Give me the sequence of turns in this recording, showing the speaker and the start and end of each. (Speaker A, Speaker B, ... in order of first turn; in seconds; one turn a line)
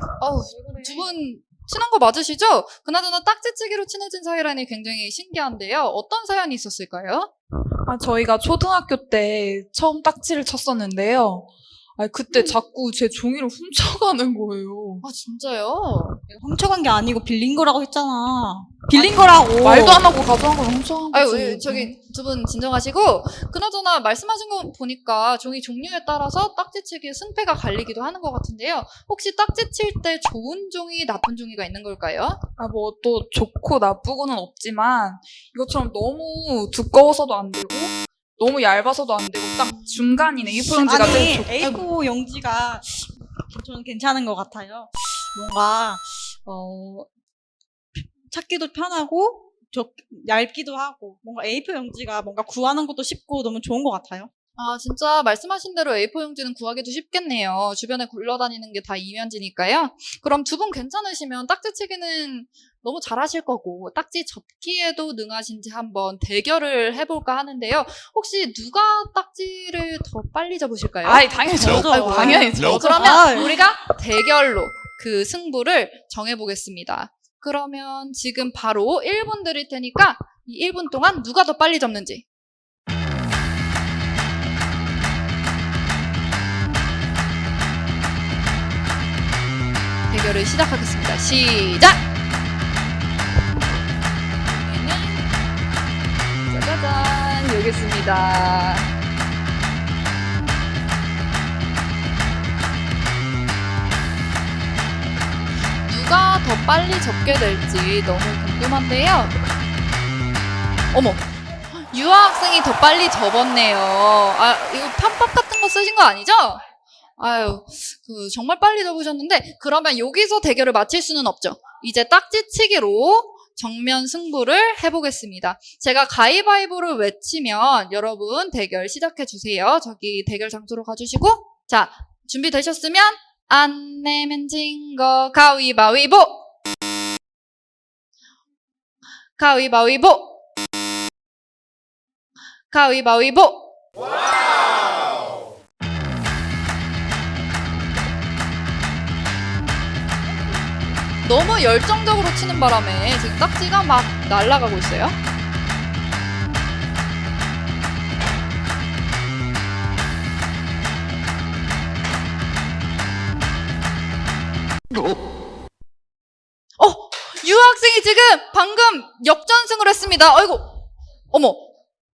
Speaker A: 0.2-7.3
Speaker B: 0.5-1.1
Speaker B: 7.9-15.0
Speaker A: 15.0-16.2
Speaker C: 16.3-20.1
Speaker B: 18.9-21.9
Speaker A: 21.1-32.4
Speaker B: 32.6-41.9
Speaker C: 40.8-47.1
Speaker C: 47.9-54.3
Speaker A: 54.6-71.3
Speaker B: 71.0-73.5
Speaker C: 71.5-73.6
Speaker A: 71.9-82.2
Speaker A: 90.1-92.0
Speaker A: 94.5-95.2
Speaker A: 96.5-98.9
Speaker A: 105.8-109.3
Speaker A: 110.9-116.6
Speaker A: 117.2-136.4
Speaker A: 139.4-140.3
Speaker A: 142.7-143.7
Speaker A: 151.2-155.2
Speaker A: 166.8-170.7
Speaker A: 171.3-171.7